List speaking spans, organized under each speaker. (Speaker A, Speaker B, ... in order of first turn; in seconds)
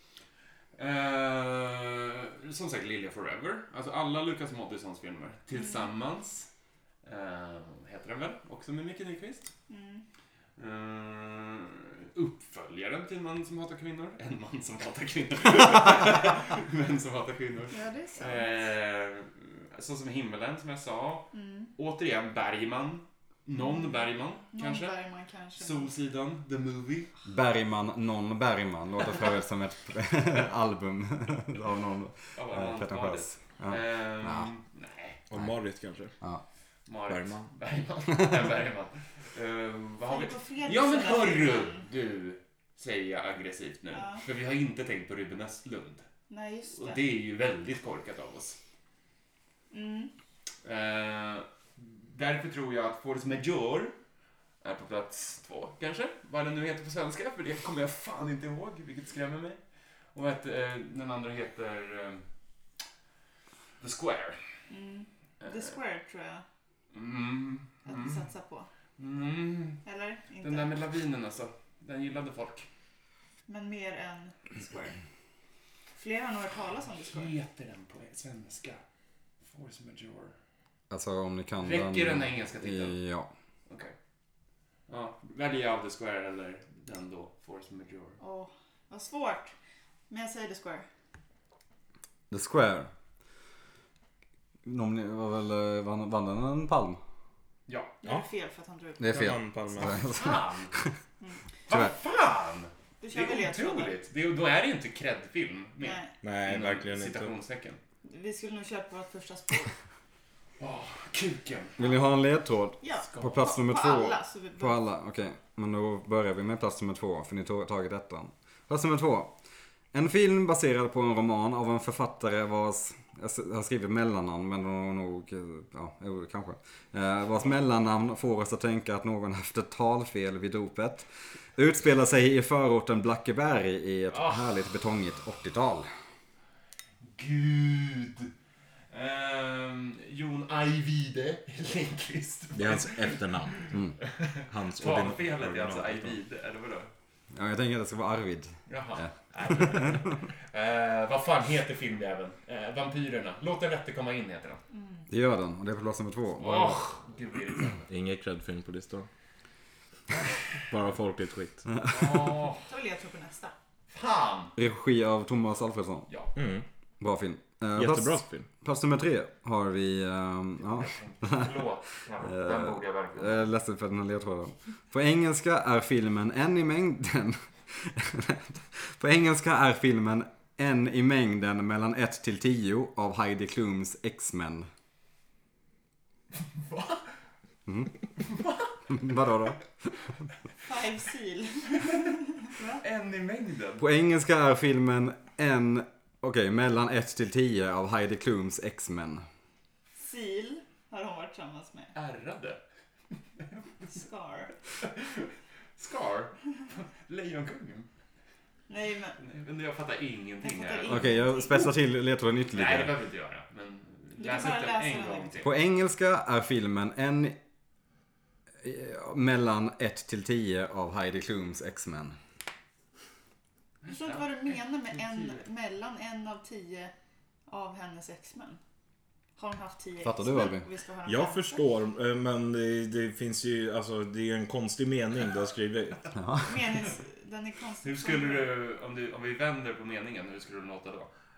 Speaker A: 0.8-6.5, 7.0-9.5, 10.6-24.9, 25.6-27.1, 32.4-35.2, 36.9-46.1, 46.7-48.6, 50.6-54.0, 54.6-59.6, 60.1-62.3, 63.8-64.4, 65.4-65.7, 66.9-68.2, 69.0-69.8, 70.4-72.7, 77.1-78.8, 79.5-80.3, 81.6-83.0, 83.7-83.9, 84.9-88.2, 97.7-98.0, 99.8-100.7, 101.7-107.8, 110.6-111.8, 113.1-113.5, 134.1-134.5, 137.1-138.3, 138.9-146.9, 148.7-154.6, 156.4-157.9, 161.9-162.7, 163.9-164.5, 170.6-173.5, 186.4-187.1, 188.2-188.8, 192.7-193.9, 201.9-202.6, 203.4-203.8, 204.8-207.9, 209.2-211.2, 212.5-215.5, 223.8-225.5, 237.8-241.1
Speaker B: 5.5-5.9, 9.7-10.0, 17.7-18.7, 21.3-21.7, 23.6-25.9, 40.1-41.9, 43.9-44.2, 46.3-47.0, 49.7-50.1, 64.7-66.4, 67.8-68.7, 69.8-70.7, 73.5-75.0, 76.0-77.3, 88.2-89.5, 90.1-90.9, 98.0-99.2, 103.0-104.0, 105.8-106.1, 108.0-109.7, 112.8-114.8, 154.7-155.1, 162.7-163.5, 190.7-192.8, 200.0-201.9, 203.9-204.5, 208.7-209.2, 210.4-211.7, 214.2-215.5, 223.9-226.9, 227.5-228.6, 229.4-231.7, 236.4-238.5
Speaker C: 27.3-34.5, 80.9-83.3, 92.3-92.9, 94.7-97.0, 99.0-100.9, 111.8-119.3, 119.9-135.9, 147.3-150.0, 155.1-156.8, 161.8-162.1, 164.6-166.1, 167.0-171.5, 172.2-184.7, 187.7-187.9, 188.9-189.7, 193.8-199.2, 210.9-212.9, 215.4-217.4, 218.6-222.2, 230.0-230.7, 236.2-236.7
Speaker D: 35.3-36.1, 37.1-37.5, 99.0-100.0, 106.2-107.3, 142.6-143.7, 144.5-146.2, 157.9-159.1, 160.6-161.7, 166.4-166.7, 167.8-168.5, 231.1-236.2